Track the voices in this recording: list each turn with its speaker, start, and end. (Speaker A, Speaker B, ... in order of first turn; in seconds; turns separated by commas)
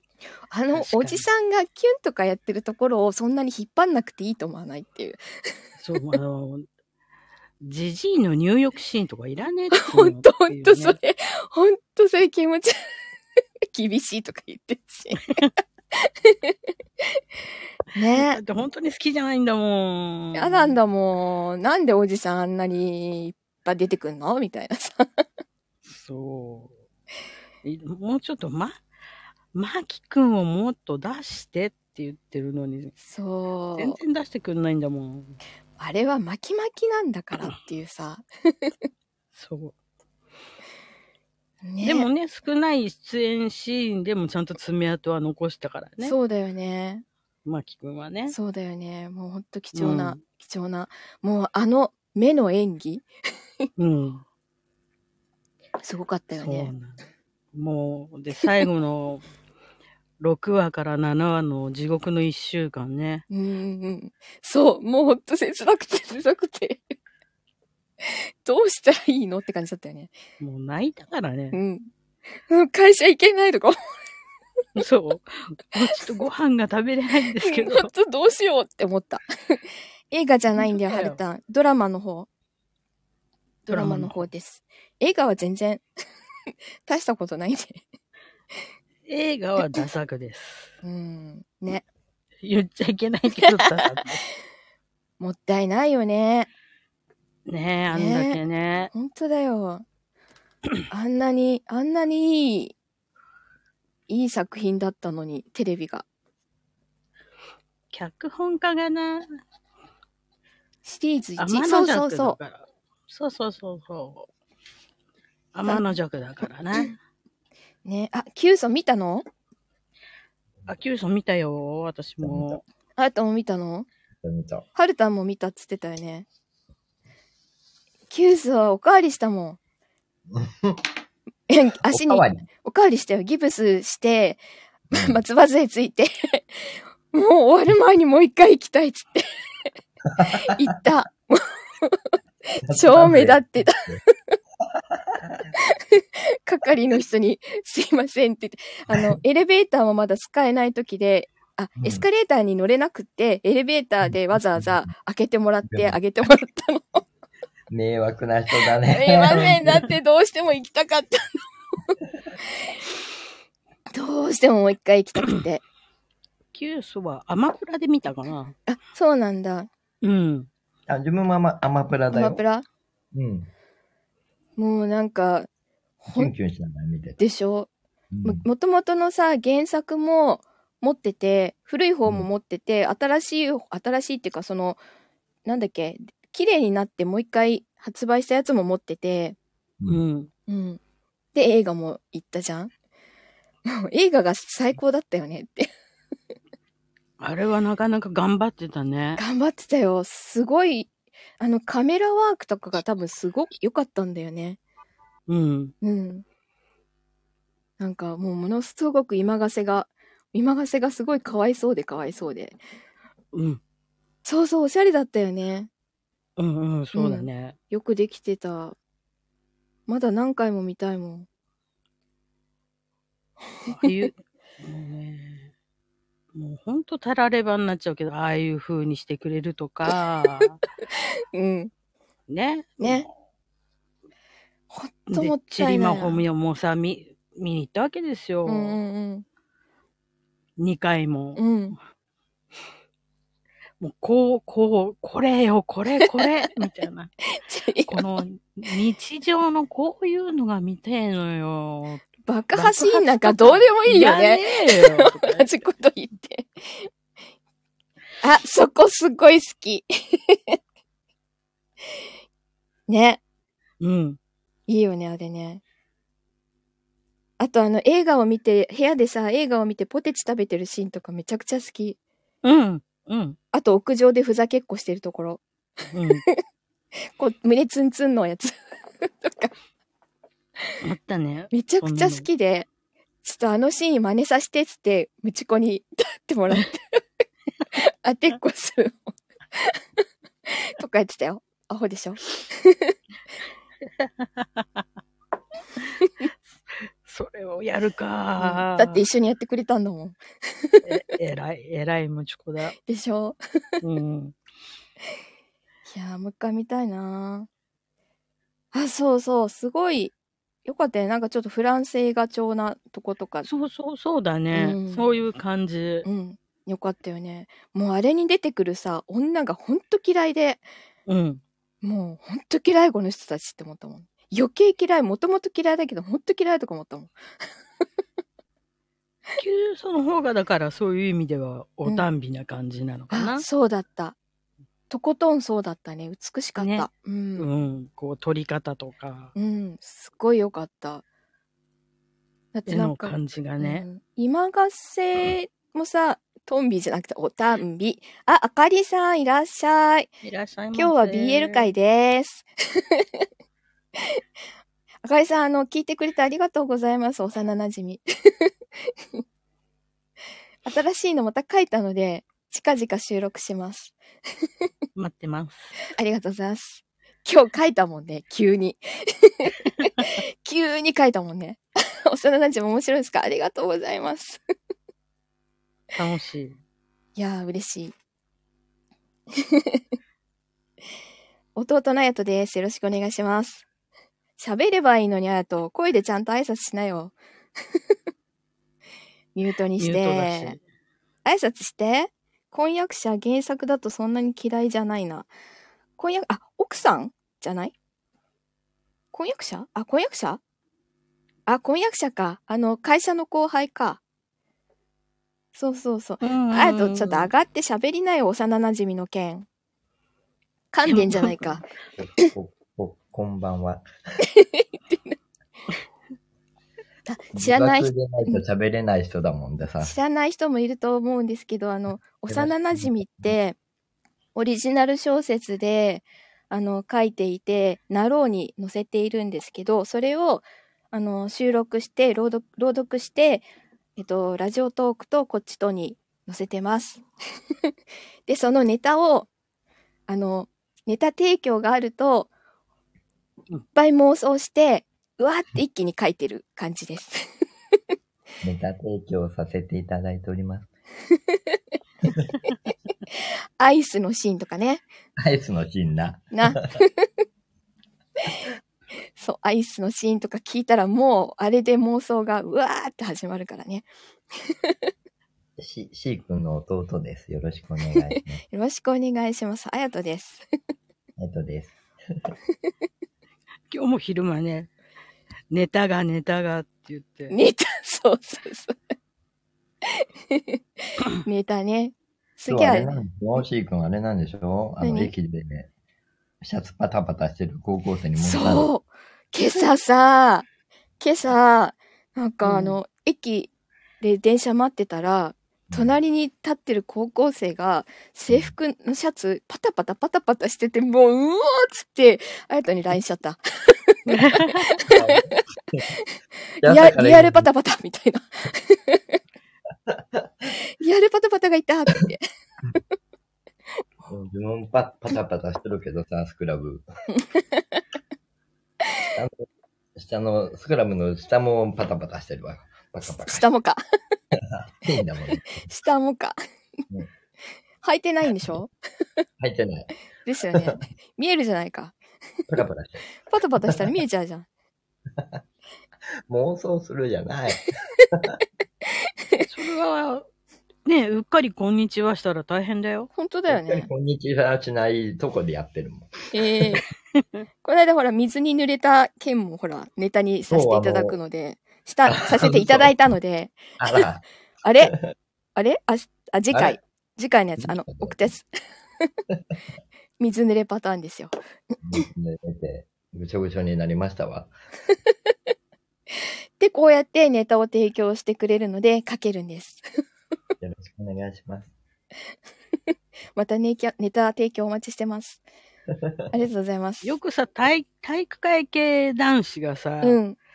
Speaker A: 0.5-5.6, Speaker B: 0.7-1.2, Speaker B: 5.8-6.7, Speaker B: 7.6-11.0, Speaker A: 9.7-12.8, Speaker A: 13.7-15.4, Speaker A: 15.9-16.5, Speaker A: 17.9-18.4, Speaker B: 18.1-20.8, Speaker A: 20.3-25.2, Speaker B: 25.9-26.7, Speaker B: 27.6-28.8, Speaker B: 29.5-33.0, Speaker A: 33.0-34.0, Speaker B: 33.8-35.4, Speaker A: 35.8-38.7, Speaker B: 39.3-39.7, Speaker A: 41.6-42.1, Speaker B: 41.8-46.1, Speaker A: 46.0-47.0, Speaker B: 47.4-48.4, Speaker A: 48.3-53.1, Speaker B: 49.7-50.2, Speaker B: 53.8-54.2, Speaker A: 55.8-56.7, Speaker B: 56.4-57.0, Speaker B: 57.5-59.2, Speaker B: 60.2-63.2, Speaker A: 63.3-66.9, Speaker A: 68.0-70.1, Speaker B: 70.4-71.6, Speaker A: 71.5-71.9, Speaker A: 72.5-73.8, Speaker B: 74.8-77.9, Speaker A: 77.4-82.3, Speaker B: 80.5-81.2, Speaker A: 83.7-85.8, Speaker B: 83.7-84.2, Speaker A: 86.9-87.8, Speaker B: 89.1-90.7, Speaker A: 90.8-91.8, Speaker B: 92.4-94.2, Speaker A: 93.4-93.8, Speaker A: 95.2-96.5, Speaker B: 97.5-98.9, Speaker A: 97.9-98.4, Speaker A: 98.9-99.8, Speaker A: 100.9-102.7, Speaker A: 104.1-106.0, Speaker B: 107.9-109.4, Speaker A: 110.8-112.4, Speaker B: 111.4-114.3, Speaker B: 115.5-117.0, Speaker A: 117.8-119.2, Speaker B: 120.7-122.6, Speaker C: 122.2-122.6, Speaker A: 123.0-123.9, Speaker C: 124.2-124.7, Speaker A: 124.7-126.3, Speaker A: 128.1-129.6, Speaker C: 130.3-130.8, Speaker A: 131.5-139.3, Speaker C: 131.9-132.4, Speaker A: 140.3-144.4, Speaker C: 142.7-144.0, Speaker C: 144.7-145.5, Speaker A: 145.5-157.0, Speaker C: 148.9-149.2, Speaker C: 154.1-154.7, Speaker C: 155.7-156.0, Speaker C: 157.7-159.9, Speaker A: 158.9-161.4, Speaker A: 163.9-165.6, Speaker B: 166.5-168.5, Speaker A: 168.7-169.7, Speaker B: 170.0-170.5, Speaker C: 170.9-172.4, Speaker A: 172.1-172.7, Speaker C: 173.1-173.5, Speaker A: 174.6-175.5, Speaker A: 176.0-176.3, Speaker C: 176.1-177.2, Speaker A: 177.2-177.7, Speaker C: 178.1-178.4, Speaker A: 178.2-184.8, Speaker A: 185.4-189.4, Speaker B: 189.9-190.3, Speaker A: 190.5-190.8, Speaker A: 191.3-192.7, Speaker A: 193.7-195.7, Speaker B: 197.2-199.2, Speaker A: 199.2-204.6, Speaker B: 205.3-205.7, Speaker A: 205.8-206.2, Speaker A: 207.8-212.6, Speaker B: 213.3-213.6, Speaker A: 214.2-215.7, Speaker B: 216.4-217.5, Speaker A: 216.9-218.8, Speaker A: 219.9-221.3, Speaker A: 223.7-224.0, Speaker B: 223.7-225.5, Speaker B: 226.3-230.6, Speaker A: 231.0-231.7, Speaker B: 232.3-233.0, Speaker A: 232.8-233.1, Speaker A: 234.7-236.2, Speaker B: 235.1-238.8, Speaker A: 238.4-239.2, Speaker B: 240.6-241.5, Speaker A: 241.4-241.8, Speaker B: 243.8-247.1, Speaker A: 246.0-246.3, Speaker A: 247.3-248.2, Speaker B: 247.9-255.6, Speaker A: 252.2-256.9, Speaker A: 258.2-260.6, Speaker A: 262.9-263.2, Speaker B: 263.8-264.2, Speaker A: 264.7-265.6, Speaker A: 267.4-272.0, Speaker B: 272.4-273.4, Speaker A: 273.5-275.4, Speaker B: 275.9-276.2, Speaker A: 277.2-279.5, Speaker B: 280.8-282.2, Speaker A: 281.5-282.7, Speaker A: 283.2-287.0, Speaker A: 287.8-289.8, Speaker A: 290.5-292.9, Speaker B: 294.0-294.8, Speaker B: 295.8-296.2, Speaker B: 297.0-299.0, Speaker A: 298.4-300.8, Speaker B: 300.9-302.7, Speaker A: 302.9-303.4, Speaker B: 303.8-304.4, Speaker A: 305.9-307.5, Speaker A: 308.7-310.1, Speaker A: 310.6-313.5, Speaker B: 313.4-316.1, Speaker A: 314.5-315.0, Speaker A: 316.0-320.6, Speaker B: 321.1-321.4, Speaker A: 321.8-327.1, Speaker B: 329.4-333.4, Speaker A: 333.1-334.1, Speaker A: 334.9-337.5, Speaker B: 336.6-339.3, Speaker A: 339.4-341.0, Speaker A: 342.5-350.1, Speaker B: 342.7-343.9, Speaker B: 350.2-351.7, Speaker A: 350.7-353.1, Speaker A: 355.0-358.5, Speaker A: 360.6-364.0, Speaker B: 364.9-365.8, Speaker A: 365.9-374.4, Speaker B: 375.9-376.6, Speaker A: 377.1-377.9, Speaker A: 379.4-379.8, Speaker A: 381.6-383.6, Speaker A: 384.4-387.1, Speaker A: 389.4-390.6, Speaker B: 389.8-390.6, Speaker A: 391.2-395.3, Speaker A: 396.0-397.7, Speaker A: 399.1-400.4, Speaker A: 401.5-404.0, Speaker A: 405.5-409.4, Speaker B: 406.2-407.3, Speaker A: 410.7-411.6, Speaker B: 410.9-411.6, Speaker C: 412.0-413.9, Speaker A: 414.3-415.1, Speaker A: 417.1-418.4, Speaker C: 417.4-419.9, Speaker A: 419.8-423.6, Speaker C: 422.3-423.3, Speaker A: 424.4-437.0, Speaker A: 438.3-439.3, Speaker A: 440.1-442.3, Speaker A: 443.7-447.3, Speaker C: 448.4-450.7, Speaker A: 451.3-451.6, Speaker A: 453.6-454.8, Speaker C: 455.2-456.6, Speaker A: 456.3-457.1, Speaker A: 459.2-463.9, Speaker A: 464.4-464.7, Speaker C: 465.6-468.4, Speaker A: 467.9-470.4, Speaker C: 471.2-471.8, Speaker B: 473.7-474.7, Speaker B: 475.5-477.4, Speaker A: 477.3-478.8, Speaker A: 480.0-483.0, Speaker C: 482.5-485.7, Speaker A: 484.8-485.1, Speaker C: 486.4-488.7, Speaker A: 488.2-490.4, Speaker A: 491.0-505.2, Speaker B: 492.4-492.7, Speaker C: 495.7-495.9, Speaker B: 504.1-504.7, Speaker C: 504.9-505.8, Speaker C: 506.6-507.5, Speaker A: 506.6-509.1, Speaker C: 509.9-510.3, Speaker A: 510.8-512.2, Speaker C: 514.1-516.9, Speaker A: 517.1-517.8, Speaker C: 519.1-519.4, Speaker C: 520.0-523.5, Speaker A: 523.2-523.8, Speaker C: 524.5-525.6, Speaker A: 525.6-526.4, Speaker A: 527.8-528.7, Speaker C: 529.4-529.9, Speaker A: 530.2-532.0, Speaker C: 532.5-533.0, Speaker A: 533.3-534.5, Speaker C: 533.6-533.9, Speaker C: 536.3-538.4, Speaker A: 539.0-539.4, Speaker B: 539.4-540.2, Speaker B: 540.9-543.1, Speaker A: 543.1-543.9, Speaker C: 543.5-546.6, Speaker A: 546.3-546.8, Speaker A: 547.6-554.0, Speaker C: 550.5-551.2, Speaker C: 552.1-552.9, Speaker C: 553.8-554.2, Speaker A: 554.6-554.9, Speaker A: 555.6-558.5, Speaker C: 557.6-558.3, Speaker A: 560.2-561.3, Speaker C: 561.8-564.5, Speaker A: 566.6-569.8, Speaker C: 570.6-571.7, Speaker A: 573.4-575.4, Speaker A: 576.3-577.2, Speaker B: 577.0-580.2, Speaker A: 580.0-580.4